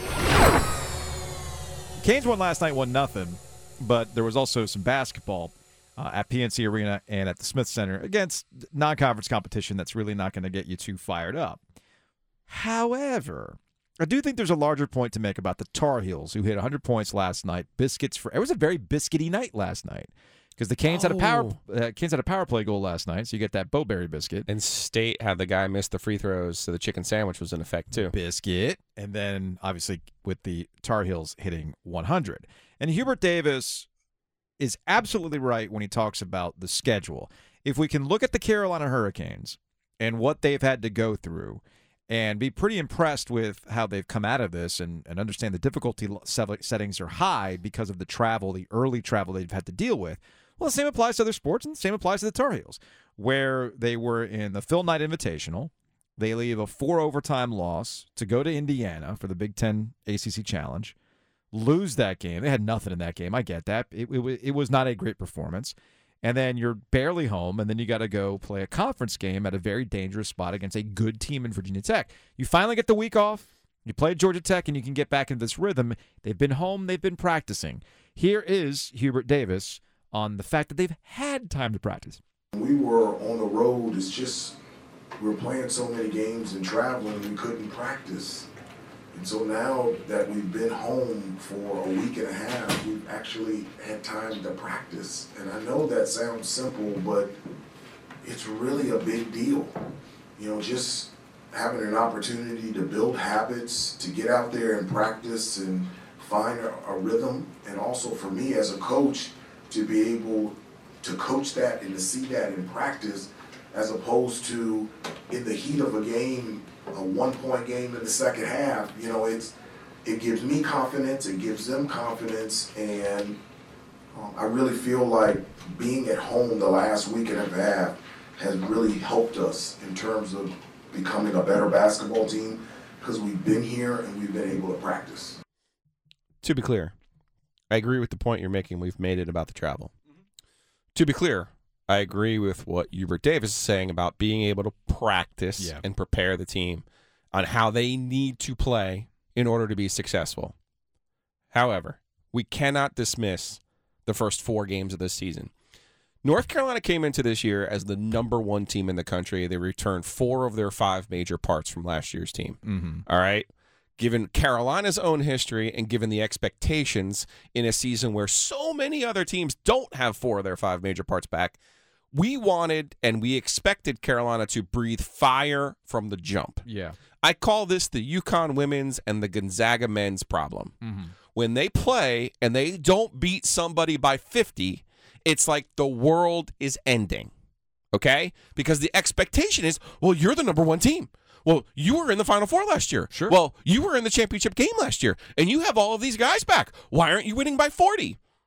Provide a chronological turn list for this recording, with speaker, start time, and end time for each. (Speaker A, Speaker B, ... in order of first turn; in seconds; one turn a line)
Speaker A: 2.0-11.6
Speaker A: 12.5-24.5
Speaker B: 20.9-21.6
Speaker B: 24.5-28.1
Speaker A: 27.9-33.9
Speaker A: 34.6-60.9
Speaker A: 61.5-82.2
Speaker C: 82.5-84.5
Speaker C: 85.2-88.5
Speaker C: 89.1-97.3
Speaker C: 98.2-99.7
Speaker C: 100.4-119.5
Speaker C: 120.0-123.4
Speaker C: 124.1-135.4
Speaker B: 136.4-136.9
Speaker B: 137.7-139.9
Speaker B: 140.9-150.5
Speaker B: 151.5-155.5
Speaker B: 156.2-171.6
Speaker A: 162.6-163.0
Speaker B: 172.1-176.6
Speaker A: 176.6-177.0
Speaker B: 177.2-180.8
Speaker A: 180.8-181.1
Speaker B: 181.3-187.3
Speaker B: 187.9-198.2
Speaker A: 193.1-193.4